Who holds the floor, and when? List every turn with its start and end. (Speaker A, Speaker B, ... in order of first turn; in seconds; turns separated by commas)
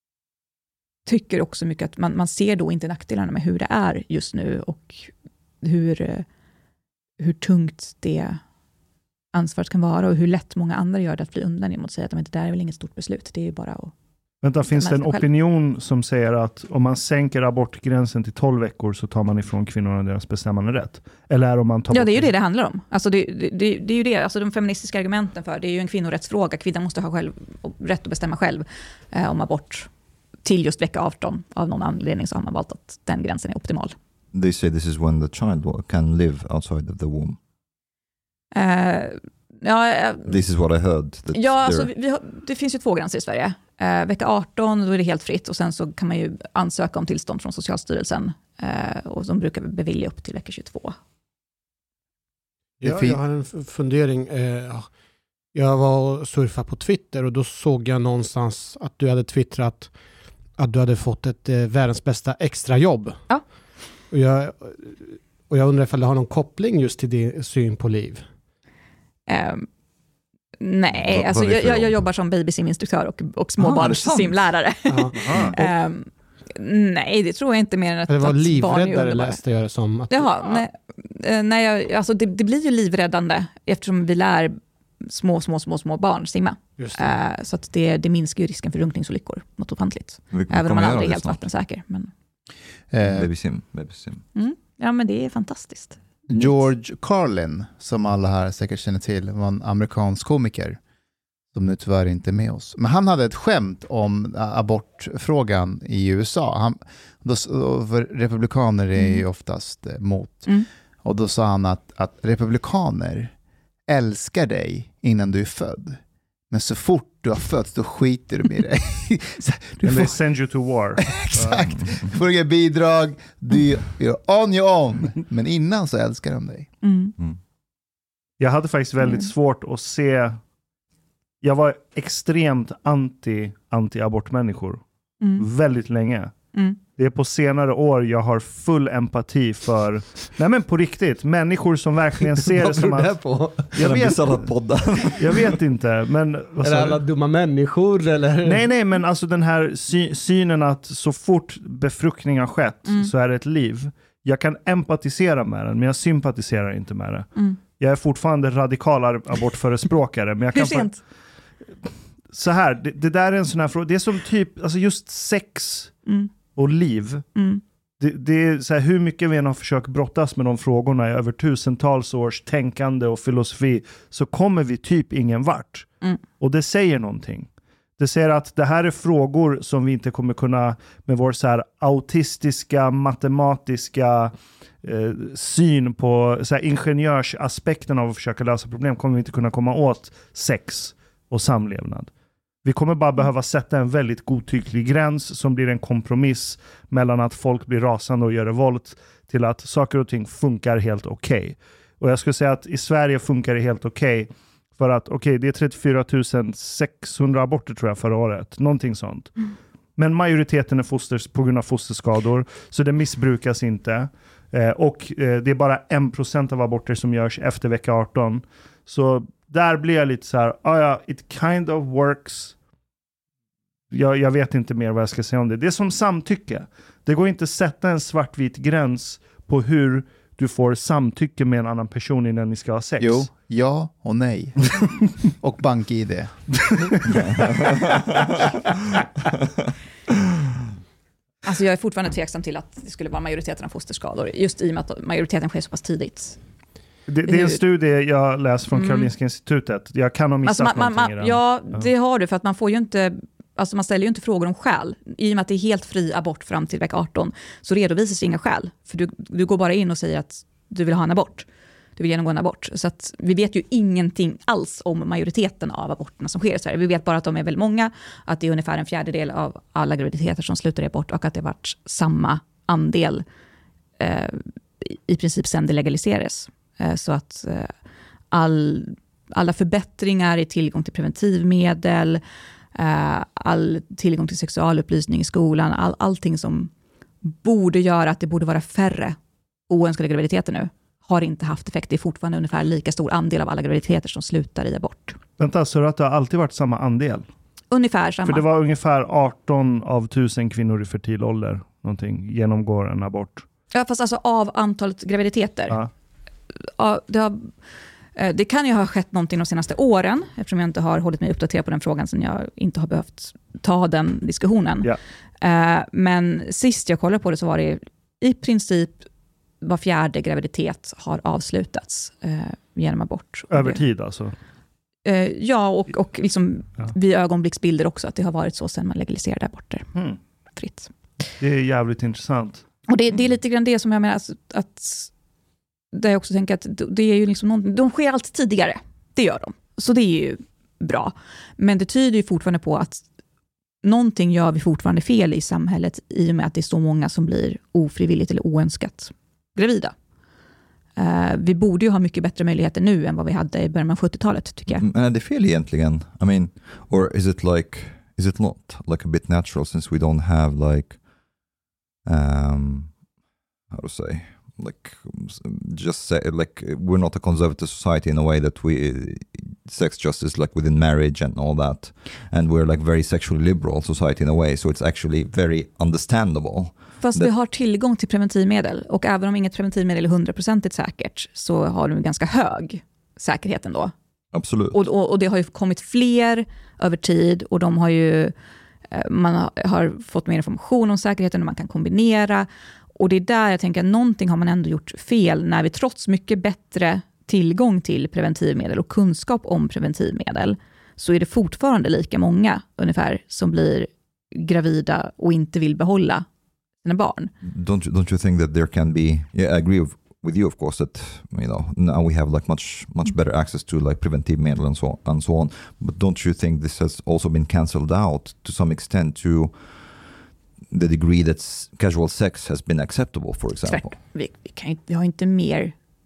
Speaker A: 1.1-6.2, Speaker A: 7.2-8.4, Speaker A: 9.3-13.9, Speaker B: 14.4-22.3, Speaker A: 14.7-15.2, Speaker A: 21.9-29.9, Speaker A: 30.4-33.9, Speaker C: 34.3-37.4, Speaker A: 38.5-40.4, Speaker C: 40.2-41.9, Speaker A: 41.3-50.9, Speaker D: 52.8-54.9, Speaker E: 52.8-53.2, Speaker D: 55.5-59.9, Speaker D: 60.5-63.3, Speaker D: 64.1-68.2, Speaker A: 69.3-69.7, Speaker A: 70.6-79.4, Speaker C: 71.0-72.0, Speaker C: 73.6-74.5, Speaker D: 74.9-75.7, Speaker B: 75.1-75.5, Speaker D: 78.1-80.6, Speaker A: 80.1-92.1, Speaker D: 86.8-87.1, Speaker C: 90.3-91.4, Speaker E: 92.9-93.3, Speaker C: 93.0-94.2, Speaker A: 94.3-96.0, Speaker E: 96.3-100.8, Speaker E: 101.5-113.3, Speaker A: 109.0-109.2, Speaker E: 113.9-120.2, Speaker B: 119.8-121.6, Speaker E: 121.1-126.7, Speaker C: 121.7-122.1, Speaker A: 126.8-127.1, Speaker B: 128.4-130.4, Speaker A: 129.0-129.3, Speaker B: 131.4-134.8, Speaker A: 135.2-135.4, Speaker B: 135.4-136.3, Speaker B: 136.9-144.6, Speaker C: 142.4-145.6, Speaker B: 145.2-147.0, Speaker D: 146.6-148.7, Speaker B: 148.4-161.1, Speaker A: 160.5-161.0, Speaker B: 162.3-167.2, Speaker A: 166.1-166.3, Speaker A: 167.3-167.6, Speaker B: 168.0-192.1, Speaker B: 192.6-222.6, Speaker B: 223.9-233.3, Speaker E: 233.0-237.2, Speaker A: 241.4-246.4, Speaker B: 247.1-251.9, Speaker A: 247.2-247.6, Speaker A: 248.7-249.1, Speaker A: 250.4-273.2, Speaker A: 274.0-277.7, Speaker A: 278.3-282.2, Speaker A: 282.7-286.7, Speaker A: 287.2-289.2, Speaker A: 289.7-295.2, Speaker B: 295.4-297.3, Speaker A: 297.7-298.4, Speaker B: 298.2-303.4, Speaker A: 303.7-305.8, Speaker A: 306.8-307.5, Speaker A: 308.1-319.1, Speaker A: 319.6-323.8, Speaker B: 323.5-324.3, Speaker A: 325.0-329.9, Speaker A: 330.6-330.9, Speaker B: 331.4-332.6, Speaker A: 332.9-335.1, Speaker A: 335.9-343.0, Speaker A: 343.8-349.9, Speaker A: 351.0-354.8, Speaker C: 354.7-361.0, Speaker C: 362.1-363.0, Speaker C: 363.7-377.3, Speaker A: 377.0-383.9, Speaker C: 384.3-384.8, Speaker A: 384.7-388.3, Speaker A: 388.9-406.2, Speaker A: 406.8-407.3, Speaker C: 407.4-420.0, Speaker C: 420.7-423.9, Speaker A: 423.6-425.7